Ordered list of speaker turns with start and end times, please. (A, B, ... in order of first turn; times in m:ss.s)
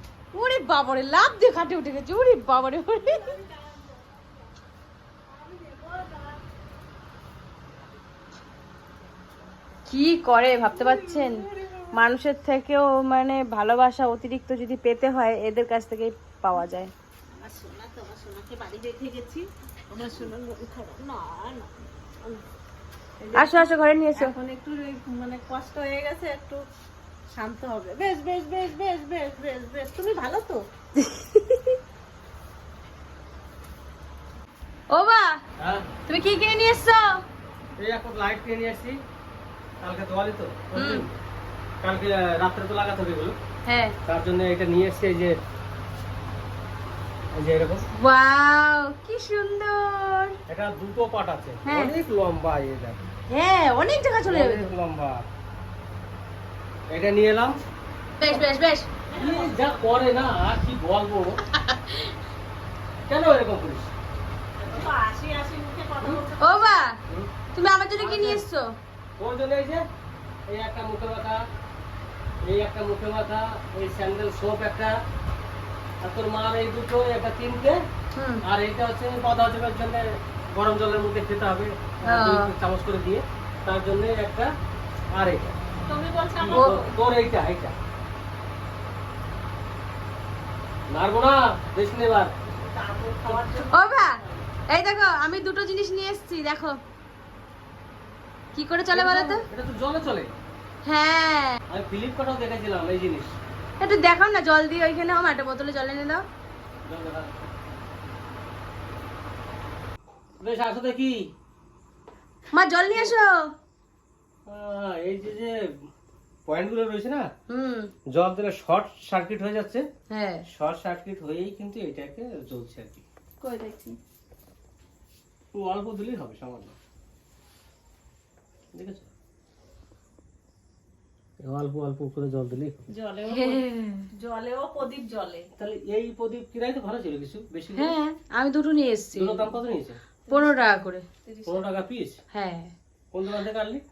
0:00.3-0:03.3 A
0:03.0-0:04.4 B
0:05.3-0:06.4 B
0:09.9-0:16.9 A
0:10.7-0:11.9 B
0:17.3-0:22.4 B
0:23.2-0:26.6 B
0:23.4-0:24.3 A
0:27.4-0:30.6 B
0:31.0-0:31.8 A
0:34.9-0:35.4 A
0:35.6-0:35.8 C
0:36.1-0:37.2 A
0:37.8-0:39.0 C
0:39.8-0:41.1 C
0:40.8-0:41.1 A
0:41.8-0:43.4 C
0:43.7-0:44.0 A
0:44.1-0:45.4 C
0:47.4-0:47.8 C
0:48.0-0:50.4 A
0:50.5-0:53.0 C
0:51.6-0:51.9 A
0:53.3-0:54.7 A
0:54.3-0:55.2 C
0:56.9-0:57.6 C
0:58.2-0:58.9 A
0:59.1-1:00.0 B
0:59.2-1:01.4 C
1:01.5-1:02.1 A
1:03.1-1:03.9 C
1:04.6-1:06.7 B
1:06.4-1:07.0 A
1:07.5-1:08.7 A
1:08.0-1:08.4 C
1:09.2-1:09.8 C
1:10.5-1:11.4 C
1:12.4-1:15.0 C
1:16.0-1:17.8 C
1:18.2-1:18.4 A
1:18.5-1:24.5 C
1:22.1-1:22.5 A
1:25.1-1:25.6 C
1:25.9-1:27.0 B
1:26.4-1:27.8 C
1:26.5-1:26.8 A
1:30.9-1:32.4 C
1:32.6-1:34.5 B
1:33.2-1:33.6 C
1:33.7-1:34.1 A
1:34.7-1:36.8 A
1:38.6-1:39.4 A
1:38.9-1:40.3 C
1:40.8-1:41.6 A
1:41.7-1:43.4 C
1:43.8-1:46.2 A
1:46.9-1:47.4 C
1:50.4-1:51.2 C
1:52.5-1:53.5 A
1:54.5-1:55.6 C
1:56.5-1:57.2 C
1:57.5-1:57.9 A
1:58.1-1:59.8 C
2:00.1-2:00.4 A
2:00.5-2:03.0 C
2:03.4-2:04.0 B
2:05.6-2:06.8 C
2:08.8-2:09.1 C
2:11.4-2:12.8 C
2:12.9-2:15.5 B
2:13.3-2:14.1 A
2:15.6-2:18.0 C
2:17.8-2:19.5 A
2:19.2-2:20.0 C
2:20.3-2:21.7 B
2:20.3-2:21.0 A
2:21.5-2:22.2 C
2:22.3-2:22.7 A
2:23.1-2:23.8 C